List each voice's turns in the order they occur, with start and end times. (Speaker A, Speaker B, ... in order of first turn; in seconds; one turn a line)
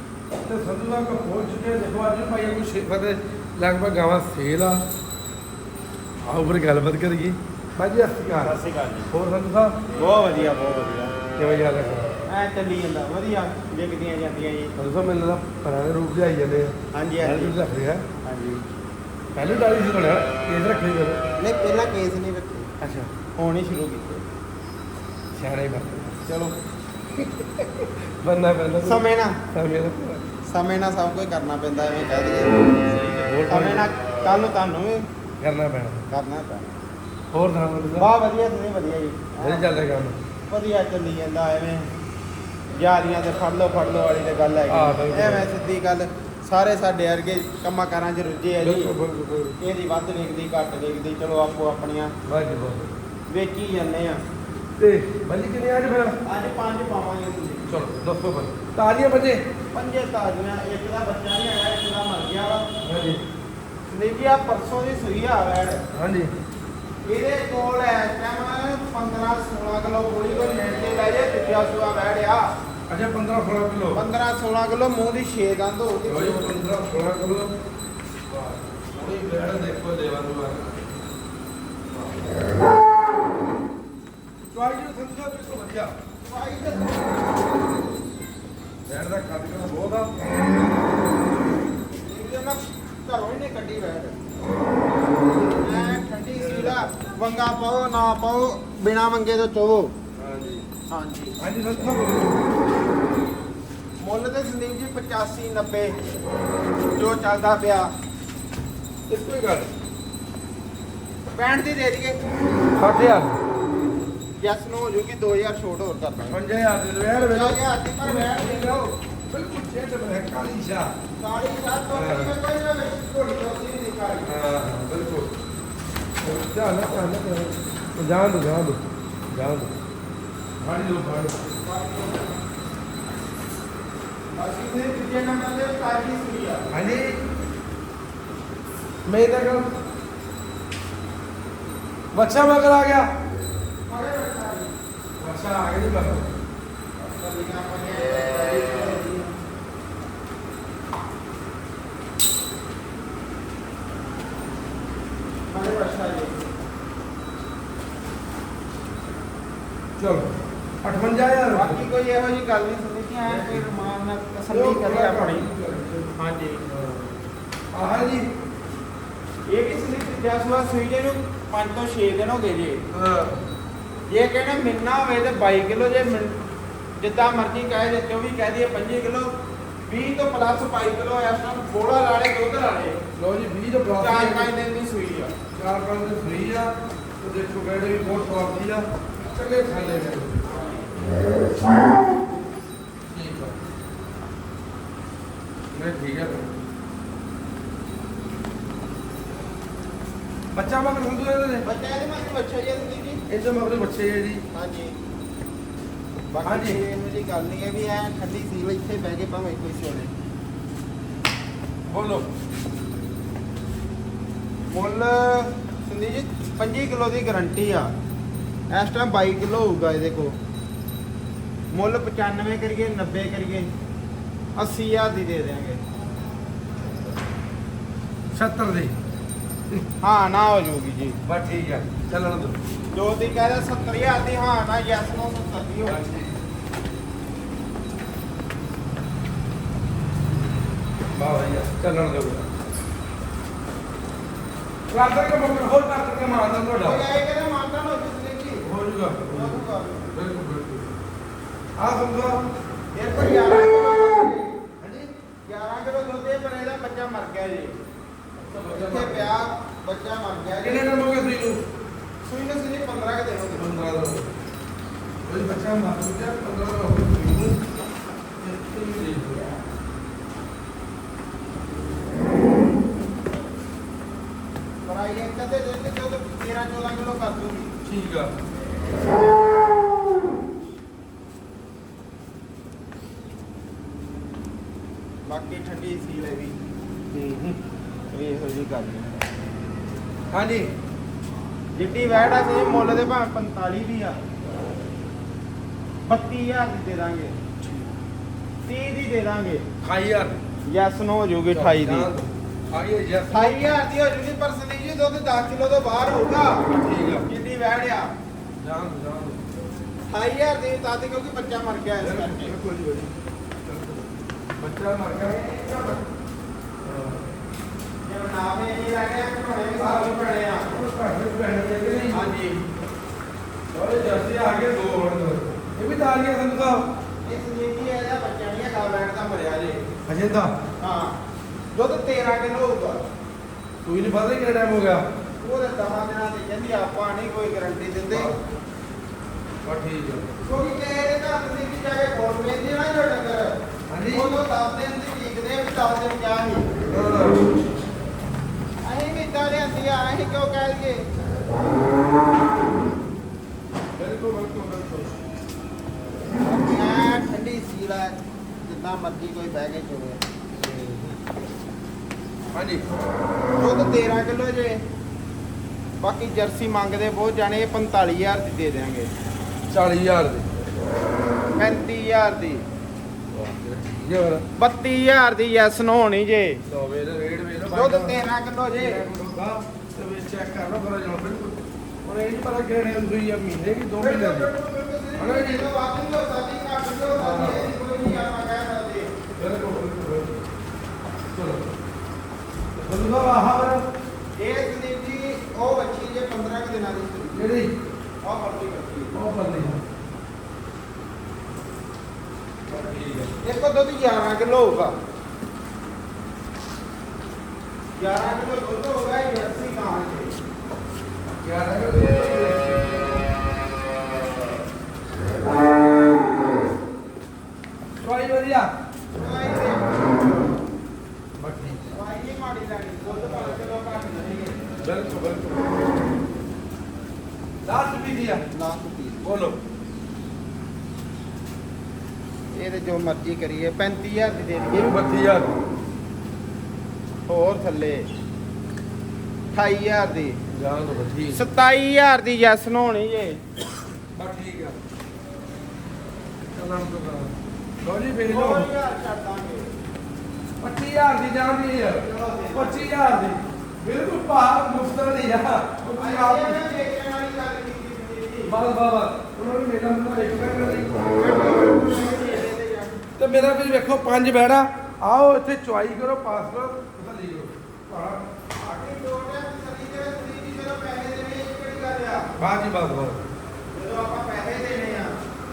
Speaker A: 0.4-4.8
Speaker A: 6.2-8.5
Speaker B: 8.3-9.1
Speaker A: 9.1-9.8
Speaker B: 9.9-11.1
Speaker A: 11.3-12.1
Speaker B: 12.3-14.7
Speaker A: 14.8-18.0
Speaker B: 16.9-17.6
Speaker B: 18.2-18.6
Speaker A: 19.3-21.2
Speaker B: 21.4-22.7
Speaker A: 22.8-23.1
Speaker B: 23.4-24.2
Speaker A: 25.3-26.2
Speaker B: 26.2-26.6
Speaker A: 27.2-30.3
Speaker B: 28.8-29.4
Speaker B: 30.5-32.8
Speaker A: 32.9-33.9
Speaker B: 33.5-35.0
Speaker A: 35.4-36.1
Speaker B: 36.1-36.7
Speaker A: 37.3-38.1
Speaker B: 37.9-39.7
Speaker A: 39.4-40.2
Speaker B: 40.5-41.9
Speaker B: 42.7-48.9
Speaker A: 44.7-45.5
Speaker A: 48.6-49.6
Speaker B: 49.6-52.1
Speaker A: 52.2-52.9
Speaker B: 53.3-54.2
Speaker A: 54.8-56.2
Speaker B: 56.2-57.7
Speaker A: 57.7-59.4
Speaker B: 59.7-62.7
Speaker A: 62.8-63.2
Speaker B: 63.9-65.8
Speaker A: 65.9-66.3
Speaker B: 67.0-72.5
Speaker A: 72.9-74.0
Speaker B: 73.9-76.5
Speaker A: 76.1-77.5
Speaker A: 78.3-80.8
Speaker A: 84.5-85.9
Speaker B: 86.2-87.2
Speaker A: 88.8-90.1
Speaker B: 92.1-94.2
Speaker B: 95.5-99.9
Speaker A: 96.3-97.0
Speaker A: 100.2-100.7
Speaker B: 100.9-101.4
Speaker A: 101.4-102.4
Speaker B: 104.0-106.0
Speaker B: 106.9-107.9
Speaker A: 109.1-109.7
Speaker B: 111.3-112.2
Speaker A: 112.8-113.4
Speaker B: 114.4-116.4
Speaker A: 116.3-120.9
Speaker B: 117.2-118.9
Speaker B: 121.2-124.3
Speaker A: 121.9-122.3
Speaker A: 124.2-125.3
Speaker A: 126.2-129.7
Speaker A: 130.6-131.4
Speaker B: 131.6-132.4
Speaker B: 134.3-136.7
Speaker A: 136.7-137.2
Speaker A: 139.1-139.7
Speaker A: 142.1-143.1
Speaker B: 143.8-144.7
Speaker A: 145.2-146.3
Speaker B: 147.0-149.3
Speaker B: 155.5-156.4
Speaker A: 160.0-160.3
Speaker A: 160.8-161.8
Speaker B: 161.5-165.5
Speaker A: 163.2-163.8
Speaker A: 164.5-166.1
Speaker B: 166.1-166.7
Speaker A: 166.7-167.2
Speaker A: 167.7-168.2
Speaker B: 169.5-172.8
Speaker A: 172.9-173.4
Speaker B: 174.1-176.4
Speaker B: 177.0-179.3
Speaker B: 179.8-183.0
Speaker A: 183.2-184.5
Speaker B: 183.9-185.3
Speaker A: 185.5-190.4
Speaker B: 190.4-190.8
Speaker A: 193.1-193.5
Speaker A: 195.7-196.5
Speaker A: 200.5-201.7
Speaker B: 201.6-203.2
Speaker A: 203.3-204.4
Speaker B: 204.5-204.9
Speaker B: 206.3-210.1
Speaker A: 206.4-206.8
Speaker A: 211.8-212.3
Speaker B: 214.7-217.9
Speaker B: 218.7-220.4
Speaker B: 221.7-223.7
Speaker B: 224.6-225.8
Speaker A: 228.3-228.9
Speaker B: 230.0-231.2
Speaker A: 231.2-232.6
Speaker B: 232.9-236.0
Speaker A: 235.8-236.4
Speaker A: 241.1-242.5
Speaker A: 244.9-247.0
Speaker B: 246.8-248.7
Speaker A: 248.6-249.6
Speaker B: 249.3-250.1
Speaker A: 250.1-250.9
Speaker A: 251.8-252.4
Speaker B: 252.9-254.5
Speaker A: 254.8-255.1
Speaker B: 255.4-257.8
Speaker A: 258.4-259.3
Speaker B: 258.6-261.0
Speaker A: 260.6-261.6
Speaker B: 262.2-263.7
Speaker A: 263.6-264.3
Speaker A: 265.2-267.6
Speaker A: 268.4-269.5
Speaker B: 274.8-277.7
Speaker A: 277.8-278.3
Speaker B: 285.2-286.6
Speaker A: 287.1-287.6
Speaker B: 288.1-289.1
Speaker A: 290.3-290.7
Speaker B: 291.7-294.2
Speaker B: 296.0-297.4
Speaker A: 297.6-297.9
Speaker B: 298.6-299.6
Speaker A: 299.8-300.3
Speaker B: 300.6-302.1
Speaker A: 301.5-303.6
Speaker B: 303.3-306.6
Speaker A: 306.7-307.3
Speaker B: 307.2-308.1
Speaker A: 308.6-309.4
Speaker B: 310.1-312.5
Speaker A: 312.0-313.1
Speaker A: 313.6-314.0
Speaker A: 314.6-315.4
Speaker B: 315.2-316.0
Speaker A: 316.8-317.2
Speaker B: 318.0-320.8
Speaker A: 319.8-322.3
Speaker B: 322.1-322.6
Speaker A: 323.7-326.9
Speaker B: 327.2-329.8
Speaker A: 330.0-330.6
Speaker B: 330.8-331.1
Speaker B: 331.7-333.0
Speaker A: 333.8-335.0
Speaker B: 335.4-338.3
Speaker A: 338.1-338.4
Speaker A: 339.6-340.3
Speaker B: 340.4-346.7
Speaker A: 343.9-344.4
Speaker A: 346.9-347.4
Speaker B: 348.8-351.1
Speaker A: 353.9-355.1
Speaker B: 356.4-360.2
Speaker A: 360.6-361.1
Speaker A: 362.5-362.9
Speaker B: 363.6-364.8
Speaker B: 366.0-369.1
Speaker A: 369.7-370.5
Speaker B: 371.6-372.6
Speaker A: 373.3-374.4
Speaker B: 374.6-376.6
Speaker A: 376.7-378.2
Speaker B: 377.7-379.0
Speaker A: 378.8-384.5
Speaker B: 384.0-389.1
Speaker A: 385.2-385.7
Speaker A: 387.2-387.7
Speaker A: 389.4-390.4
Speaker A: 391.3-391.6
Speaker A: 392.8-393.8
Speaker B: 394.3-397.4
Speaker A: 397.3-397.7
Speaker B: 398.2-399.2
Speaker A: 399.1-399.8
Speaker A: 402.7-403.3
Speaker B: 403.4-404.9
Speaker B: 407.9-410.4
Speaker A: 411.3-413.0
Speaker A: 418.0-418.7
Speaker B: 419.1-420.6
Speaker A: 421.4-421.8
Speaker B: 421.9-424.6
Speaker A: 423.2-423.6
Speaker A: 424.8-425.7
Speaker A: 427.6-428.4
Speaker B: 428.5-429.2
Speaker A: 429.2-429.6
Speaker B: 432.5-434.9
Speaker A: 434.7-435.5
Speaker B: 437.3-438.1
Speaker B: 439.5-440.4
Speaker A: 440.5-441.4
Speaker B: 441.3-443.4
Speaker A: 444.1-444.8
Speaker A: 446.5-448.7
Speaker B: 448.2-449.7
Speaker A: 450.6-456.6
Speaker B: 452.0-452.9
Speaker B: 456.0-458.6
Speaker A: 458.5-461.4
Speaker B: 461.1-463.0
Speaker A: 463.2-468.3
Speaker B: 468.6-472.3
Speaker A: 472.4-473.2
Speaker B: 473.7-475.1